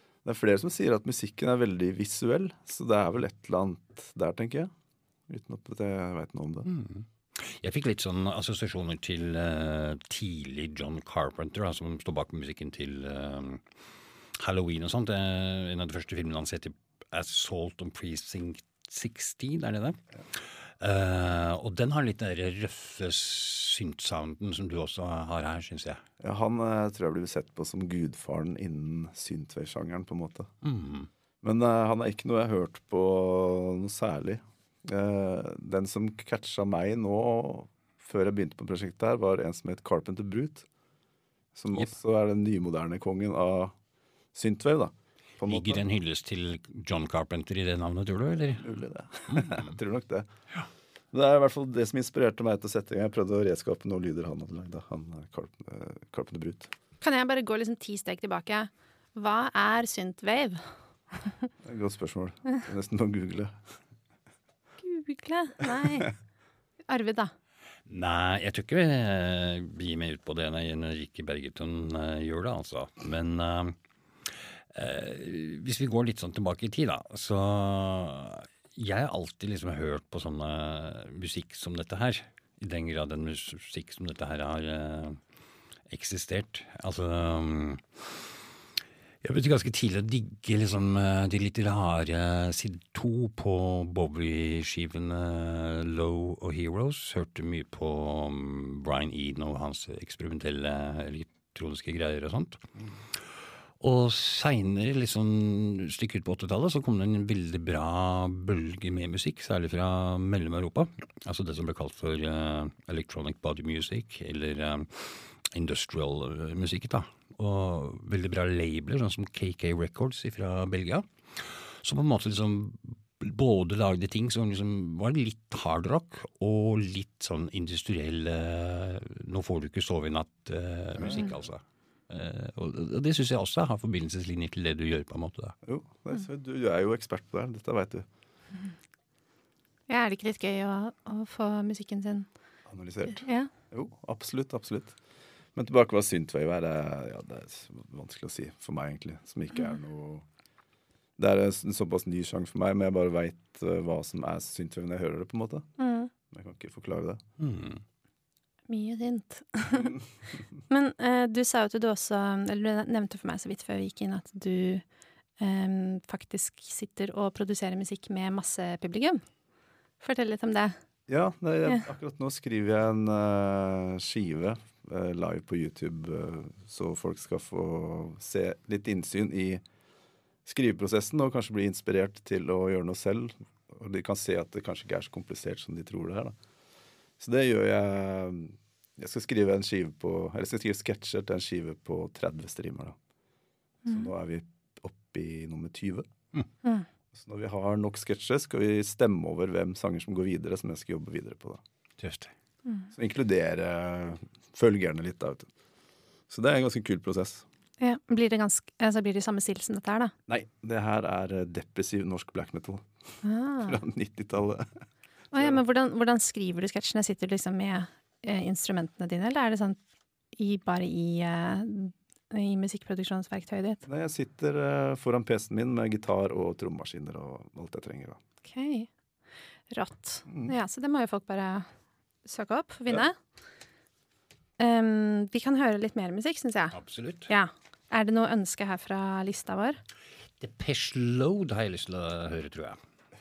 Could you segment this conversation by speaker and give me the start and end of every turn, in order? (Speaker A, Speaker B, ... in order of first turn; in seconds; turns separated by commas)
Speaker A: 0.2-4.7, Speaker A: 5.3-6.7, Speaker B: 6.7-13.6, Speaker B: 14.3-26.0, Speaker A: 26.2-30.5, Speaker B: 30.6-31.1, Speaker A: 31.4-40.6, Speaker A: 41.5-43.7, Speaker A: 44.3-45.8, Speaker B: 45.4-48.7, Speaker A: 48.6-50.3, Speaker B: 49.3-49.7, Speaker A: 51.1-56.7, Speaker C: 57.0-61.4, Speaker A: 61.6-63.6, Speaker C: 64.8-66.1, Speaker C: 66.9-67.3, Speaker B: 67.9-85.2, Speaker B: 85.9-88.3, Speaker B: 89.2-102.6, Speaker B: 103.8-135.5, Speaker A: 130.9-131.4, Speaker A: 135.6-138.1, Speaker C: 139.9-142.3, Speaker A: 142.7-145.0, Speaker C: 143.1-143.5, Speaker A: 145.5-150.2, Speaker A: 151.2-155.7, Speaker C: 155.8-156.1, Speaker A: 156.3-157.2, Speaker B: 157.4-157.8, Speaker C: 158.7-159.9, Speaker C: 160.7-164.8, Speaker C: 165.4-169.2, Speaker C: 170.0-170.8, Speaker A: 171.1-179.6, Speaker A: 180.4-186.4, Speaker A: 187.2-192.9, Speaker A: 193.8-196.1, Speaker A: 197.1-201.6, Speaker B: 202.0-202.3, Speaker A: 202.9-205.5, Speaker A: 206.3-207.4, Speaker C: 207.8-210.1, Speaker A: 210.3-212.9, Speaker C: 213.2-213.8, Speaker A: 213.6-214.7, Speaker C: 215.3-219.8, Speaker C: 220.3-223.8, Speaker A: 223.8-228.2, Speaker C: 228.4-228.9, Speaker C: 229.7-231.7, Speaker A: 230.3-230.5, Speaker C: 232.2-233.2, Speaker C: 234.6-236.8, Speaker B: 236.7-237.3, Speaker C: 237.3-239.8, Speaker B: 240.4-242.8